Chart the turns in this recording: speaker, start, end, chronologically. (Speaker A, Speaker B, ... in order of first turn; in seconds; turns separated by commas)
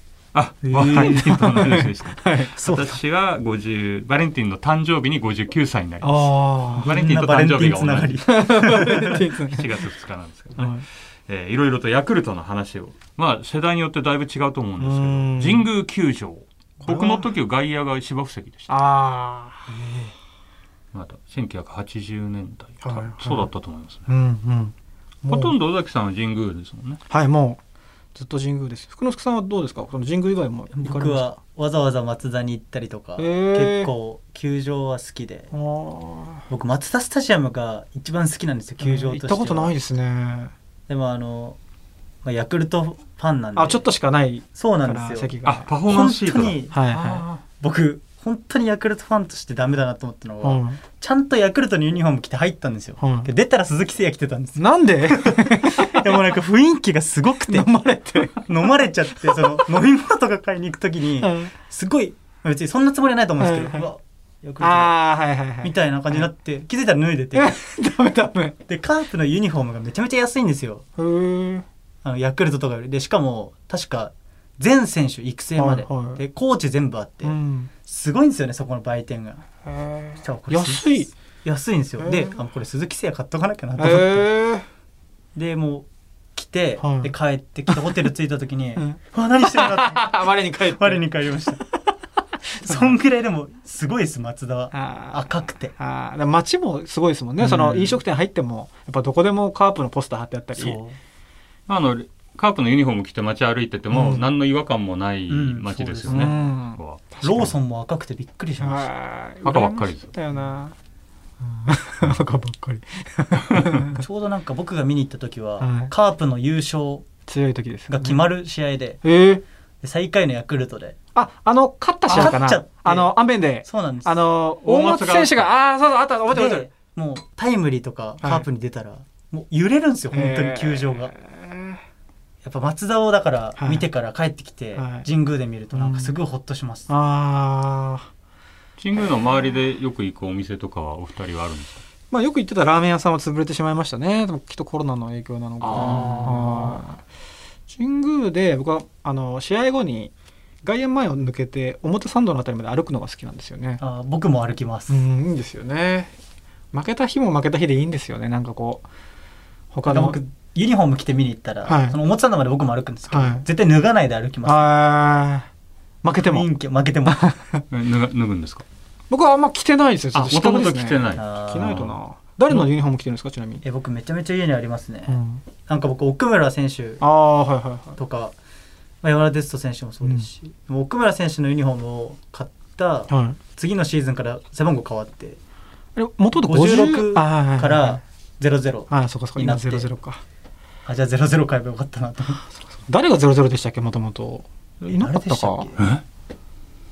Speaker A: 0.3-8.2, Speaker B: 0.6-1.3, Speaker C: 0.9-2.5, Speaker B: 2.5-2.9, Speaker C: 6.0-6.9, Speaker B: 6.8-9.2, Speaker C: 8.2-9.8, Speaker A: 8.9-18.7, Speaker C: 10.6-10.8, Speaker C: 14.8-15.7, Speaker C: 16.8-17.3, Speaker C: 18.7-19.7, Speaker A: 20.9-24.1, Speaker C: 22.8-23.5, Speaker C: 24.1-24.7, Speaker C: 25.2-25.6, Speaker A: 25.2-27.0, Speaker C: 27.1-27.6, Speaker C: 28.1-31.3, Speaker B: 30.7-35.5, Speaker C: 33.2-33.9, Speaker C: 35.5-36.4, Speaker B: 36.5-39.7, Speaker C: 38.8-40.5, Speaker B: 40.9-41.6, Speaker B: 42.2-43.9, Speaker C: 43.5-45.7, Speaker B: 44.5-45.3, Speaker A: 45.4-47.4, Speaker B: 45.9-46.8, Speaker C: 46.7-47.2, Speaker B: 47.6-64.9, Speaker C: 50.4-50.8, Speaker C: 53.0-53.3, Speaker C: 54.5-56.1, Speaker C: 57.5-58.5, Speaker C: 59.1-59.6, Speaker C: 61.2-61.5, Speaker C: 63.4-63.9, Speaker C: 64.6-66.3, Speaker B: 65.6-67.5, Speaker C: 67.3-68.5, Speaker B: 68.7-70.8, Speaker C: 71.0-71.6, Speaker B: 72.0-79.4, Speaker C: 75.6-76.2, Speaker C: 77.2-77.7, Speaker C: 79.7-81.1, Speaker B: 80.2-84.3, Speaker C: 82.0-82.3, Speaker C: 83.8-84.7, Speaker B: 85.3-91.6, Speaker C: 86.8-87.1, Speaker C: 88.8-91.0, Speaker B: 92.5-95.7, Speaker C: 94.7-100.8, Speaker B: 97.4-98.0, Speaker B: 100.5-101.0, Speaker A: 101.7-107.5, Speaker C: 103.9-104.2, Speaker B: 105.3-106.4, Speaker C: 106.1-107.5, Speaker B: 107.2-108.9, Speaker C: 108.6-110.7, Speaker A: 109.4-110.1, Speaker C: 111.4-114.0, Speaker B: 113.9-117.0, Speaker C: 115.6-115.9, Speaker C: 117.2-118.2, Speaker B: 117.9-119.0, Speaker C: 119.0-119.4, Speaker B: 119.8-121.0, Speaker C: 121.1-126.7, Speaker A: 122.1-122.3, Speaker B: 122.1-123.1, Speaker B: 123.6-124.2, Speaker A: 124.6-125.5, Speaker B: 126.3-131.1, Speaker C: 130.1-131.8, Speaker B: 132.4-136.9, Speaker C: 133.6-133.8, Speaker C: 134.7-135.1, Speaker C: 135.7-136.2, Speaker C: 136.9-138.1, Speaker A: 138.8-141.8, Speaker C: 142.1-147.0, Speaker A: 145.6-146.8, Speaker B: 145.7-146.6, Speaker C: 147.7-153.8, Speaker B: 153.8-155.0, Speaker C: 154.9-156.1, Speaker C: 156.7-158.8, Speaker C: 159.7-160.2, Speaker B: 159.8-164.7, Speaker C: 161.6-162.0, Speaker C: 163.1-163.4, Speaker C: 164.4-165.5, Speaker C: 166.0-166.5, Speaker B: 166.2-167.3, Speaker C: 167.1-167.6, Speaker A: 167.7-168.6, Speaker C: 169.1-173.6, Speaker A: 170.1-171.8, Speaker B: 171.1-171.9, Speaker B: 173.6-177.0, Speaker C: 175.1-175.4, Speaker C: 177.0-178.0, Speaker B: 178.0-178.3, Speaker B: 179.0-185.4, Speaker C: 180.0-180.3, Speaker C: 183.1-183.4, Speaker C: 185.9-188.0, Speaker B: 186.3-189.9, Speaker C: 188.9-190.2, Speaker B: 190.8-192.4, Speaker C: 192.4-195.7, Speaker B: 194.8-195.9, Speaker A: 195.8-196.0